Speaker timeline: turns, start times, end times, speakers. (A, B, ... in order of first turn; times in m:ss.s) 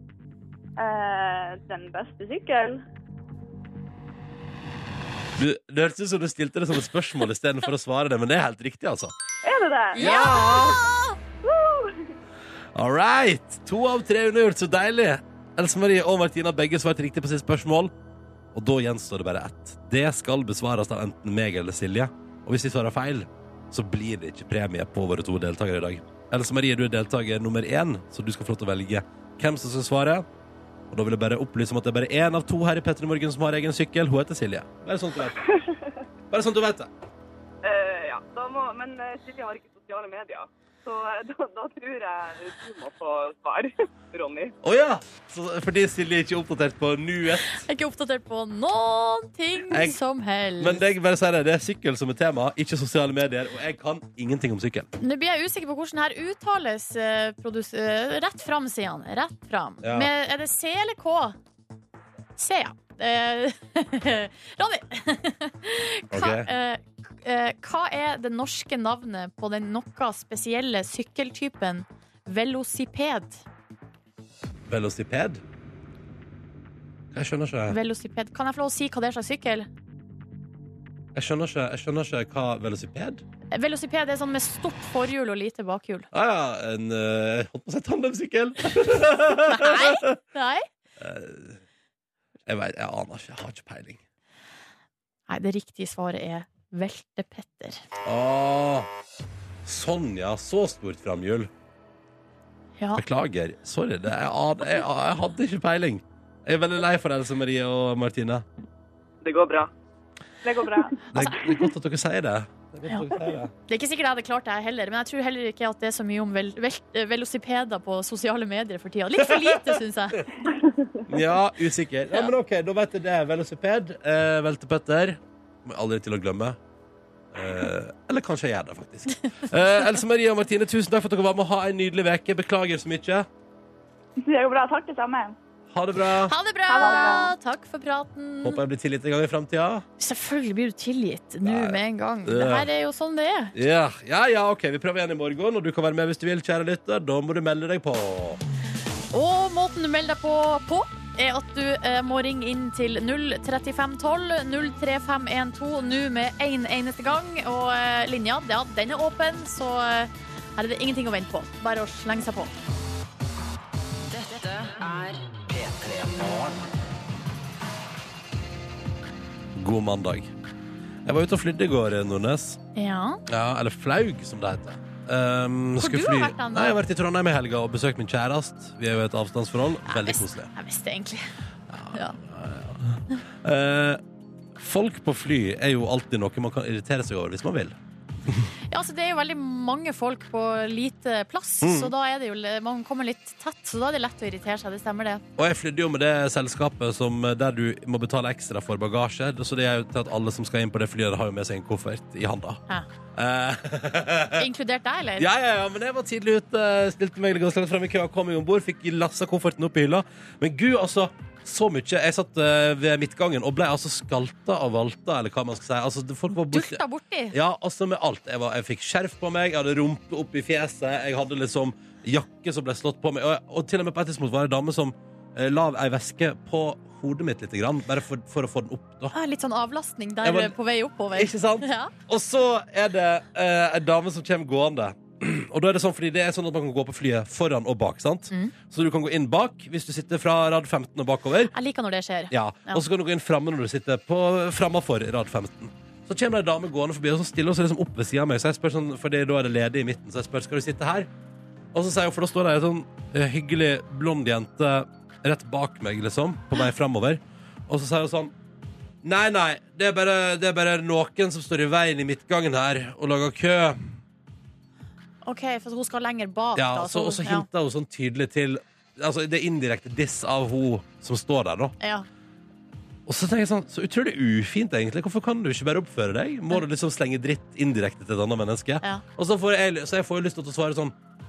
0:00.8-0:02.8 A
0:05.4-0:09.1 B
0:09.4-0:10.4 A
0:10.0-0:11.2 C
0:10.0-0:10.8 B
0:11.4-0:12.1 A
0:12.8-0:17.9 B
0:18.5-0:30.3 B
0:30.9-0:35.5 B
0:36.3-0:36.9 B
0:37.6-0:44.5 D
0:44.6-0:47.6 B
0:47.5-0:50.8 C
0:49.7-0:50.0 B
0:50.6-0:54.9 B
0:55.0-1:01.4 C
0:59.8-1:00.1 B
1:02.4-1:13.4 C
1:06.1-1:06.5 B
1:14.7-1:15.4 B
1:17.1-1:17.8 B
1:17.7-1:19.7 C
1:21.2-1:23.2 B
1:23.5-1:26.1 C
1:26.1-1:30.2 B
1:29.5-1:30.6 C
1:31.0-1:31.6 B
1:32.5-1:34.0 B
1:35.3-1:37.8 C
1:38.0-1:38.9 B
1:39.6-1:41.5 B
1:43.0-1:48.4 B
1:49.2-1:49.7 D
1:50.4-1:51.0 A
1:51.1-1:53.5 B
1:53.7-2:00.3 C
1:59.2-2:00.2 B
2:00.4-2:00.9 A
2:01.1-2:06.6 B
2:07.3-2:13.3 B
2:14.2-2:15.4 A
2:15.7-2:16.4 B
2:16.3-2:18.6 C
2:16.7-2:17.3 A
2:18.4-2:19.9 B
2:20.0-2:23.5 C
2:21.4-2:22.7 B
2:23.5-2:28.4 B
2:29.1-2:42.5 C
2:44.1-2:46.7 E
2:49.6-2:50.3 B
2:51.0-2:52.6 B
2:52.8-2:53.2 C
2:53.3-3:00.5 B
2:55.8-2:56.8 C
2:59.9-3:01.3 C
3:01.7-3:04.0 B
3:01.9-3:02.2 C
3:04.6-3:07.8 B
3:08.7-3:15.2 C
3:11.6-3:11.9 B
3:15.4-3:22.6 B
3:23.2-3:24.5 B
3:24.3-3:25.3 C
3:25.2-3:49.1 B
3:36.5-3:37.4 C
3:49.1-3:51.9 C
3:50.2-3:50.6 B
3:51.1-4:01.5 B
4:01.5-4:02.8 C
4:02.3-4:11.1 B
4:11.7-4:18.3 B
4:19.0-4:23.9 B
4:25.2-4:27.5 C
4:26.6-4:31.8 B
4:31.8-4:32.1 C
4:33.1-4:40.9 B